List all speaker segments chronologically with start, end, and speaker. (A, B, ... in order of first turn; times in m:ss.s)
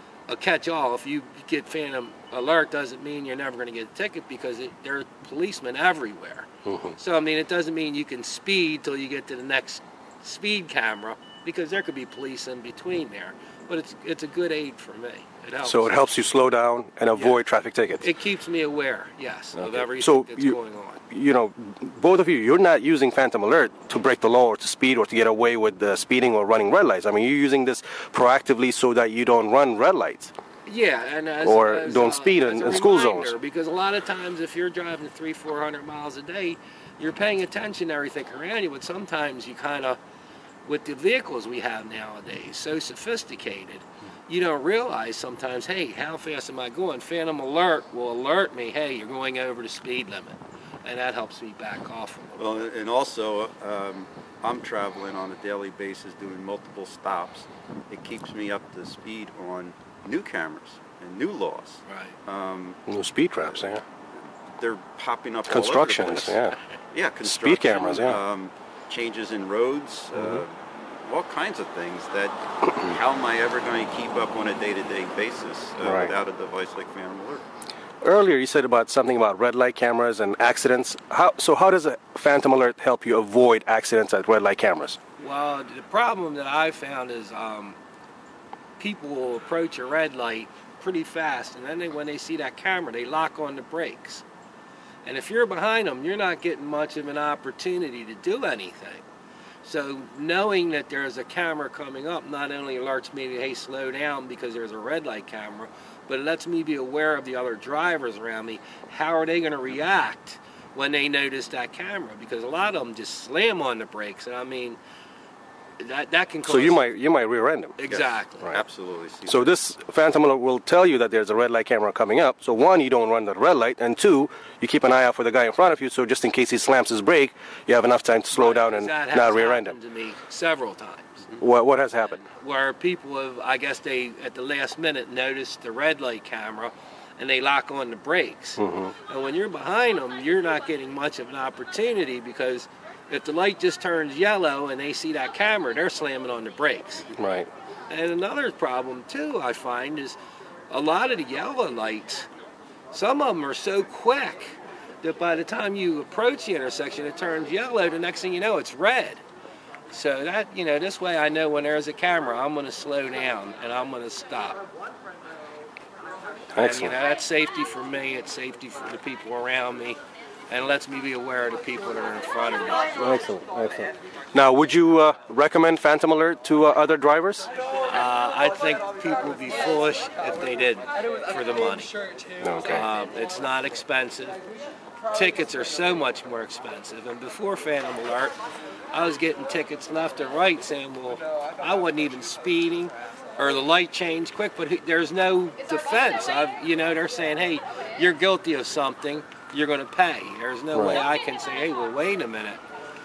0:00.3-0:16.1 A
0:06.6-0:07.0 B
0:15.6-0:18.0 B
0:17.1-0:17.4 A
0:18.0-0:21.0 A
0:19.6-0:20.6 B
0:21.1-0:30.3 B
0:30.6-0:40.0 A
0:31.4-0:33.3 B
0:40.6-0:52.4 A
0:52.4-1:02.8 C
1:01.9-1:02.2 A
1:02.9-1:03.8 B
1:04.4-1:06.4 C
1:05.5-1:06.6 B
1:06.9-1:17.4 C
1:07.2-1:08.2 B
1:10.1-1:10.4 B
1:15.8-1:16.1 B
1:18.0-1:25.0 B
1:25.2-1:27.8 A
1:28.8-1:34.2 A
1:35.0-1:39.0 A
1:39.6-1:54.8 A
1:55.8-1:56.8 A
1:56.4-1:57.8 B
1:57.8-1:58.5 A
1:57.9-1:59.5 C
1:59.3-2:09.7 B
2:08.3-2:11.3 A
2:11.4-2:12.2 B
2:12.2-2:27.1 A
2:18.6-2:18.9 B
2:27.2-2:27.5 B
2:27.9-2:30.2 A
2:30.7-2:32.3 A
2:32.9-2:39.2 A
2:39.9-2:44.6 A
2:46.5-2:46.9 B
2:46.6-2:50.0 A
2:50.5-2:52.9 A
2:53.0-2:57.5 B
2:57.9-3:02.0 A
3:02.4-3:02.8 B
3:02.6-3:04.4 A
3:05.1-3:08.3 A
3:08.9-3:22.6 A
3:20.7-3:21.0 B